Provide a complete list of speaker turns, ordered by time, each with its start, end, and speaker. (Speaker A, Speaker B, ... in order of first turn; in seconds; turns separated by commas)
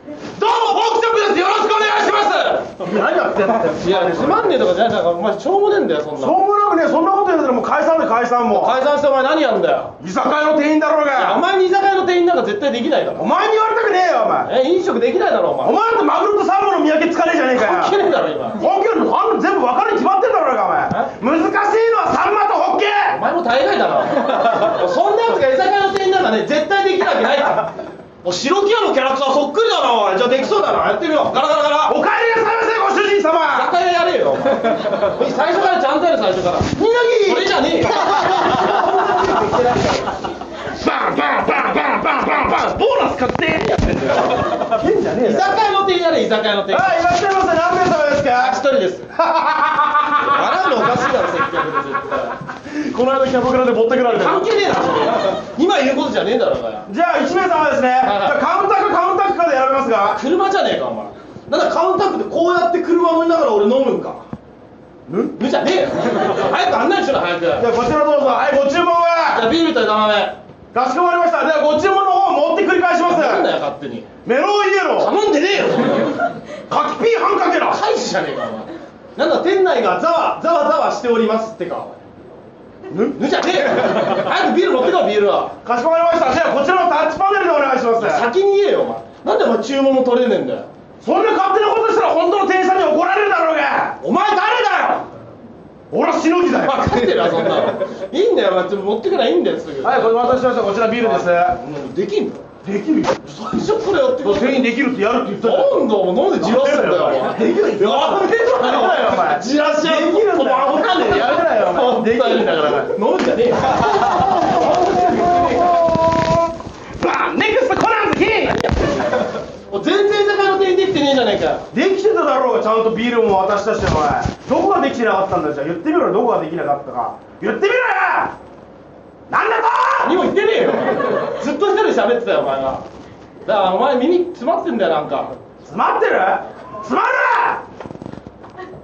Speaker A: 0.4-2.9, Speaker B: 2.8-4.5, Speaker A: 3.7-6.4, Speaker B: 6.2-8.8, Speaker A: 8.5-9.9, Speaker B: 10.0-11.4, Speaker A: 11.1-13.3, Speaker B: 13.2-14.5, Speaker A: 14.4-15.8, Speaker B: 15.6-18.0, Speaker A: 17.5-18.6, Speaker B: 18.6-23.2, Speaker A: 23.1-31.9, Speaker B: 31.9-33.8, Speaker A: 33.5-40.3, Speaker B: 36.7-39.6, Speaker B: 40.7-45.6, Speaker A: 44.0-44.5, Speaker A: 45.2-47.0, Speaker B: 46.7-48.6, Speaker A: 48.3-49.1, Speaker B: 49.1-51.2, Speaker A: 50.1-52.4, Speaker B: 52.6-54.5, Speaker A: 54.0-56.9, Speaker B: 56.9-60.2, Speaker A: 58.0-58.4, Speaker A: 60.1-64.2, Speaker B: 65.1-65.4, Speaker A: 65.3-67.7, Speaker B: 67.6-69.5, Speaker A: 69.2-70.4, Speaker B: 70.7-73.5, Speaker A: 73.0-74.1, Speaker B: 74.2-75.1, Speaker A: 75.0-76.3, Speaker B: 76.7-77.8, Speaker A: 77.7-82.0, Speaker B: 82.9-83.2, Speaker A: 83.0-85.6, Speaker B: 85.6-88.3, Speaker A: 88.0-90.7, Speaker B: 91.0-94.0, Speaker A: 94.0-95.1, Speaker B: 95.9-97.7, Speaker A: 96.6-102.5, Speaker B: 99.8-101.6, Speaker B: 102.6-103.3, Speaker A: 103.2-104.7, Speaker B: 104.2-113.0, Speaker A: 105.4-115.9, Speaker B: 113.9-114.8, Speaker B: 117.0-119.0, Speaker A: 119.7-121.7, Speaker B: 121.7-128.3, Speaker B: 129.3-130.2, Speaker A: 130.0-132.8, Speaker A: 133.4-135.3, Speaker B: 135.6-137.6